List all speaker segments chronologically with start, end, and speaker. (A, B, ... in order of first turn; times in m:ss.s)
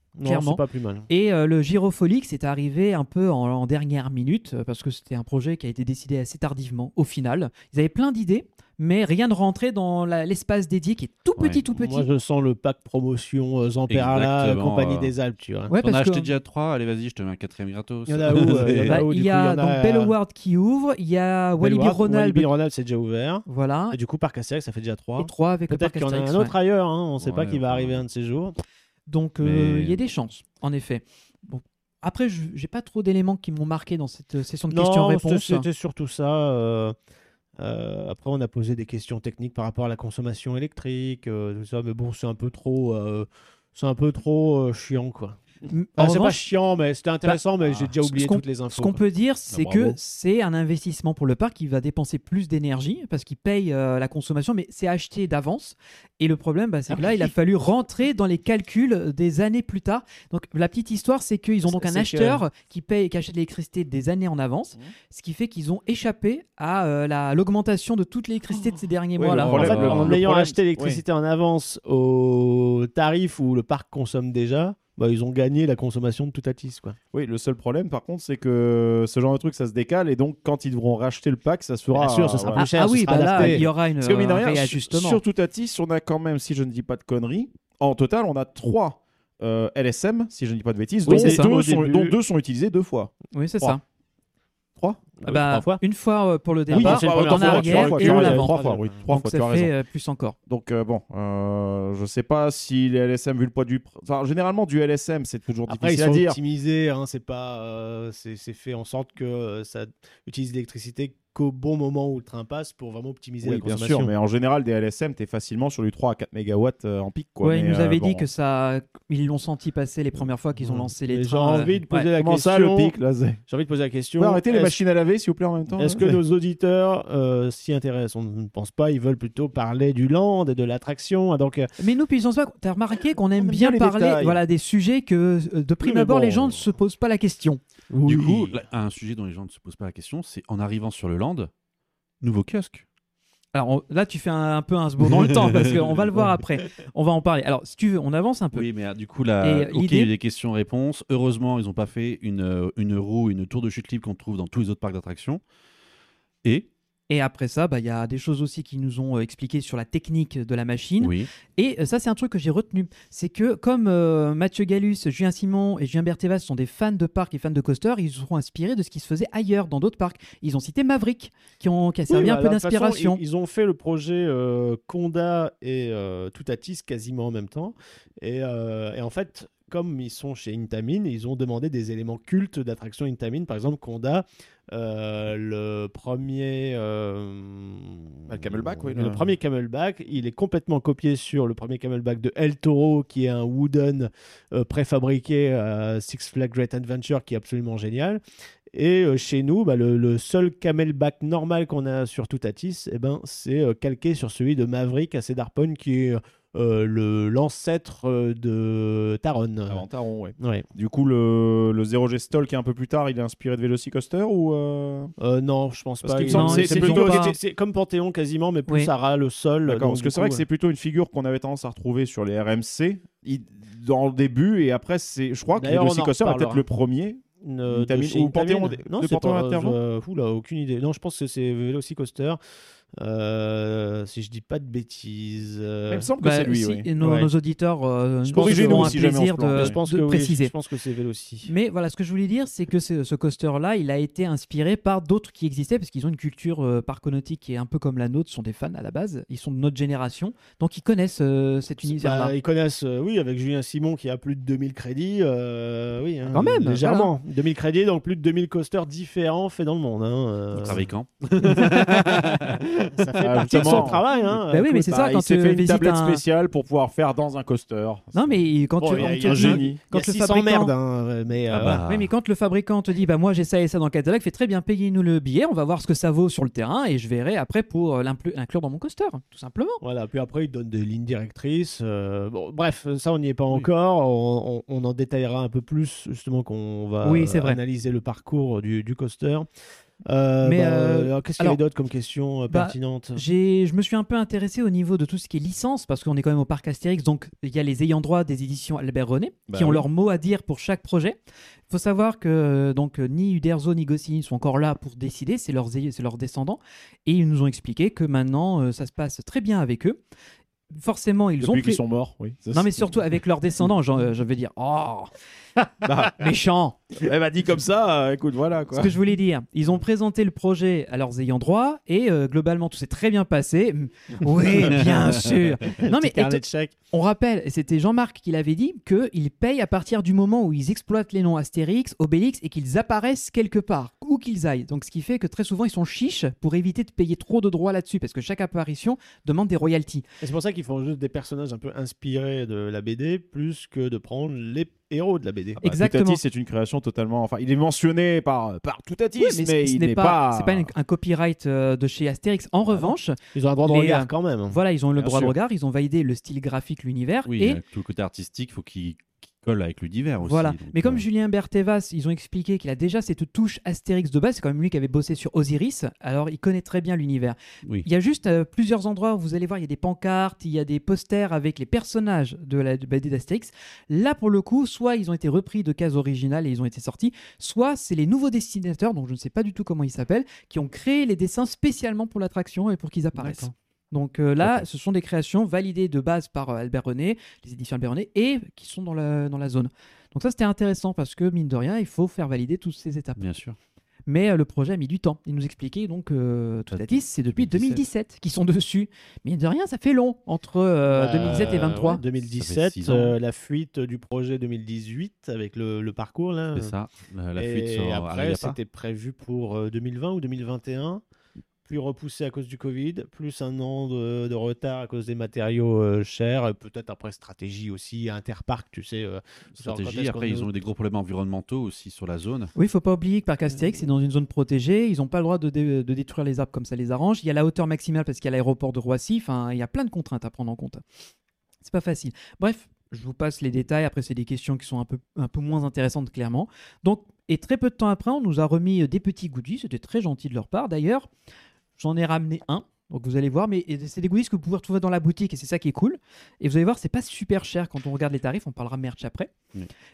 0:00.2-0:01.1 A
0:00.2-0:12.1 B
0:11.7-0:15.7 A
0:13.9-0:15.1 C
0:15.7-0:16.3 B
0:15.8-0:19.0 C
0:18.1-0:20.1 A
0:18.9-0:22.5 B
0:21.6-0:28.6 A
0:23.5-0:24.0 B
0:25.2-0:26.5 B
0:27.2-0:28.0 C
0:29.1-0:35.6 B
0:29.4-0:30.0 C
0:34.7-0:36.9 A
0:37.6-0:45.4 A
0:45.7-0:46.4 B
0:46.0-0:49.0 A
0:48.0-1:10.0 B
0:49.5-0:50.0 D
0:56.9-0:57.3 A
1:01.7-1:02.4 A
1:09.2-1:11.0 D
1:09.4-1:17.0 A
1:09.5-1:10.1 C
1:17.1-1:33.7 D
1:21.9-1:23.7 A
1:22.5-1:25.2 B
1:31.0-1:32.2 A
1:31.1-1:31.5 B
1:33.3-1:33.8 B
1:35.2-1:35.8 A
1:35.2-1:38.6 B
1:36.7-1:39.0 A
1:36.7-1:39.7 D
1:39.1-1:40.4 B
1:40.5-1:46.4 D
1:45.7-1:54.1 A
1:53.4-1:58.3 D
1:57.4-2:02.1 B
2:00.6-2:02.9 A
2:02.1-2:03.4 D
2:03.5-2:04.8 A
2:04.2-2:06.2 D
2:05.8-2:11.7 A
2:11.8-2:17.6 B
2:13.4-2:14.4 D
2:15.8-2:16.6 A
2:17.9-2:18.6 A
2:18.0-2:21.5 C
2:22.2-2:22.8 C
2:23.5-2:28.7 B
2:25.0-2:26.3 C
2:28.5-2:35.4 C
2:29.4-2:30.1 B
2:37.1-2:53.2 B
2:41.0-2:41.3 C
2:52.1-3:18.2 A
3:08.3-3:09.3 D
3:18.7-3:29.8 A
3:29.7-3:35.1 D
3:30.4-3:30.6 A
3:35.2-3:40.4 A
3:36.0-3:37.4 D
3:36.3-3:37.3 B
3:39.6-3:49.8 D
3:45.6-3:46.6 A
3:47.4-3:52.4 A
3:53.0-3:56.1 A
3:55.9-3:56.9 D
3:56.2-4:00.5 B
3:57.0-3:57.3 A
3:58.2-3:59.8 D
3:58.3-4:01.5 A
4:01.4-4:12.3 B
4:11.8-4:20.8 A
4:16.3-4:17.1 B
4:20.5-4:22.8 C
4:21.4-4:22.3 B
4:22.9-4:24.8 A
4:23.2-4:29.8 D
4:23.5-4:26.2 B
4:28.1-4:30.7 B
4:28.8-4:31.8 A
4:31.5-4:32.1 C
4:31.8-4:39.8 B
4:39.8-4:49.5 A
4:47.0-4:47.6 B
4:50.0-4:53.2 A
4:50.4-4:51.6 B
4:52.5-5:01.2 B
4:59.5-4:59.9 D
5:01.7-5:10.0 B
5:10.7-5:11.8 B
5:11.4-5:13.1 D
5:12.5-5:15.1 B
5:15.8-5:16.2 D
5:16.1-5:16.8 B
5:17.0-5:19.0 D
5:18.7-5:40.0 B
5:25.8-5:26.7 A
5:40.2-5:45.6 A
5:45.6-5:46.2 B
5:45.6-5:50.7 D
5:49.2-5:57.6 B
5:52.7-5:54.6 A
5:54.9-5:55.3 D
5:57.3-6:01.0 C
6:00.2-6:33.2 B
6:23.1-6:23.5 C
6:33.2-6:33.6 C
6:34.1-6:42.0 B
6:36.7-6:37.8 C
6:40.9-6:46.7 A
6:42.3-6:43.2 C
6:46.5-6:48.6 C
6:47.4-6:51.0 A
6:51.7-7:00.5 A
6:59.5-7:02.5 C
7:02.6-7:10.8 B
7:11.6-7:21.1 B
7:21.8-7:29.3 B